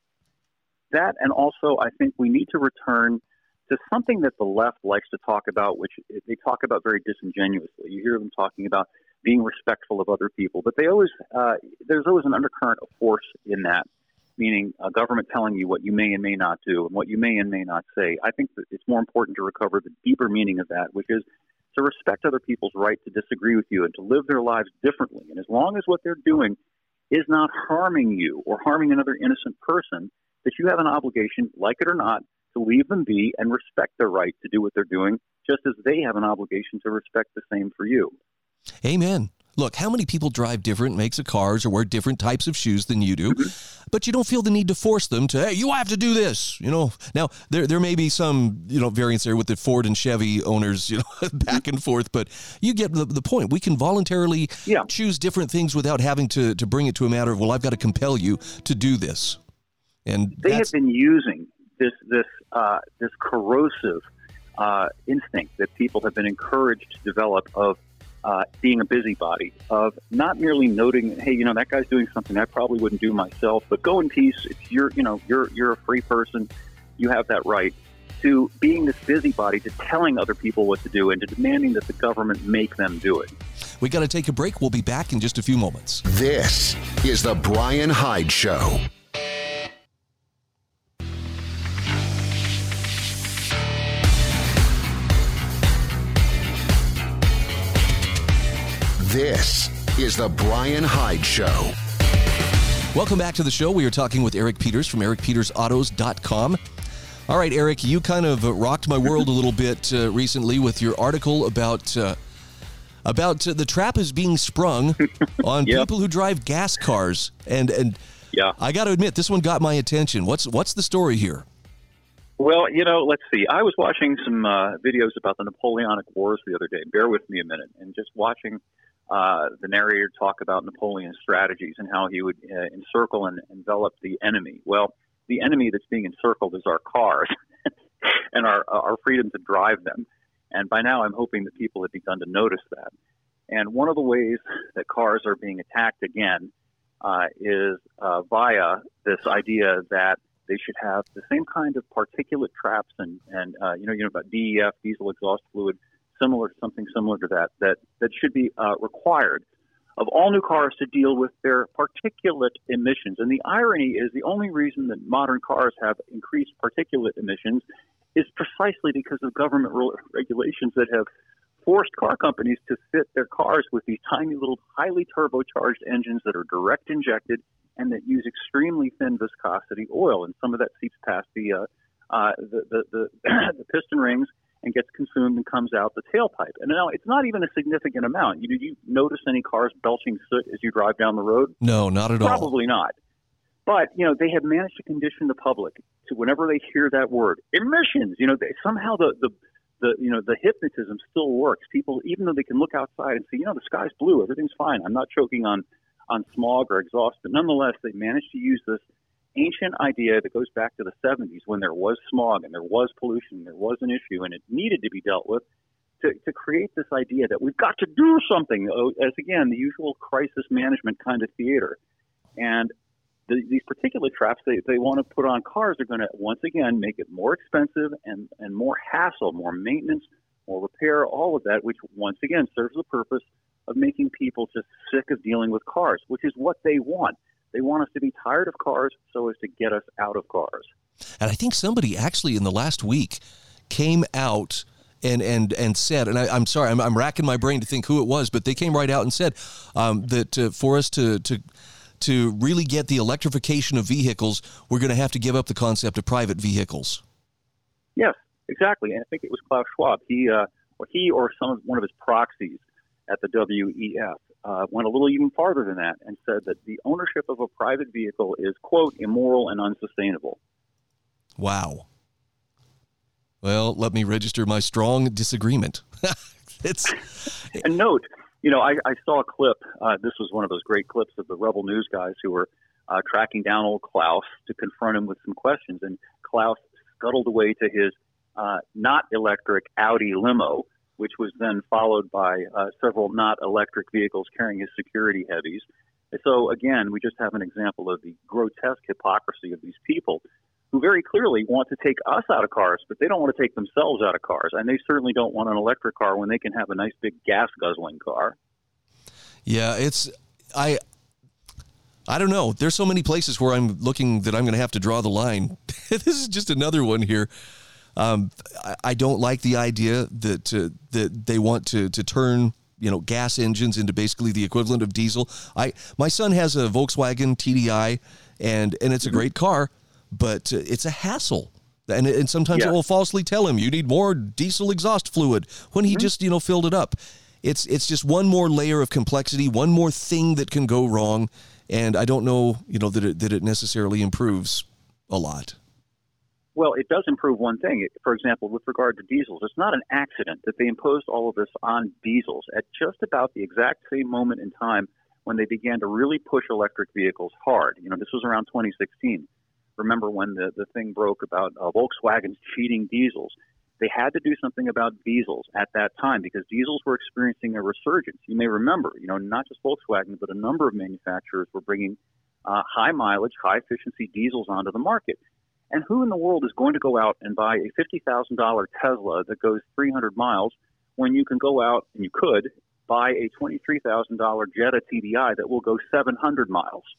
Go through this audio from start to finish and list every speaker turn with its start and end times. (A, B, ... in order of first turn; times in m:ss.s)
0:00.9-0:13.9 A
0:14.4-0:26.6 A
0:27.1-0:38.2 A
0:38.8-0:59.4 B
1:00.0-1:00.7 B
1:00.4-1:04.0 A
1:04.6-1:23.3 A
1:23.8-1:26.0 B
1:26.0-1:28.8 C
1:39.0-1:41.8 C
1:42.9-1:46.6 B
1:47.3-1:52.2 B
1:53.0-1:58.0 B
1:58.6-2:01.4 B
2:02.4-2:17.3 A
2:18.0-2:22.9 A
2:23.5-2:26.5 A
2:27.0-2:39.4 A
2:40.0-2:47.6 A
2:48.2-2:51.1 A
2:51.6-3:11.6 A
3:11.6-3:12.5 B
3:12.2-3:12.9 A
3:13.7-3:28.8 A
3:29.4-3:35.4 A
3:36.0-3:41.8 A
3:42.4-3:42.7 A
3:43.3-4:00.7 A
4:01.2-4:11.4 B
4:12.0-4:17.0 B
4:18.0-4:30.4 A
4:31.4-4:31.9 B
4:33.4-4:37.0 B
4:37.5-5:08.4 A
5:09.5-5:10.8 B
5:12.1-5:17.3 B
5:18.0-5:45.6 B
5:46.6-6:15.2 A
6:15.7-6:26.9 A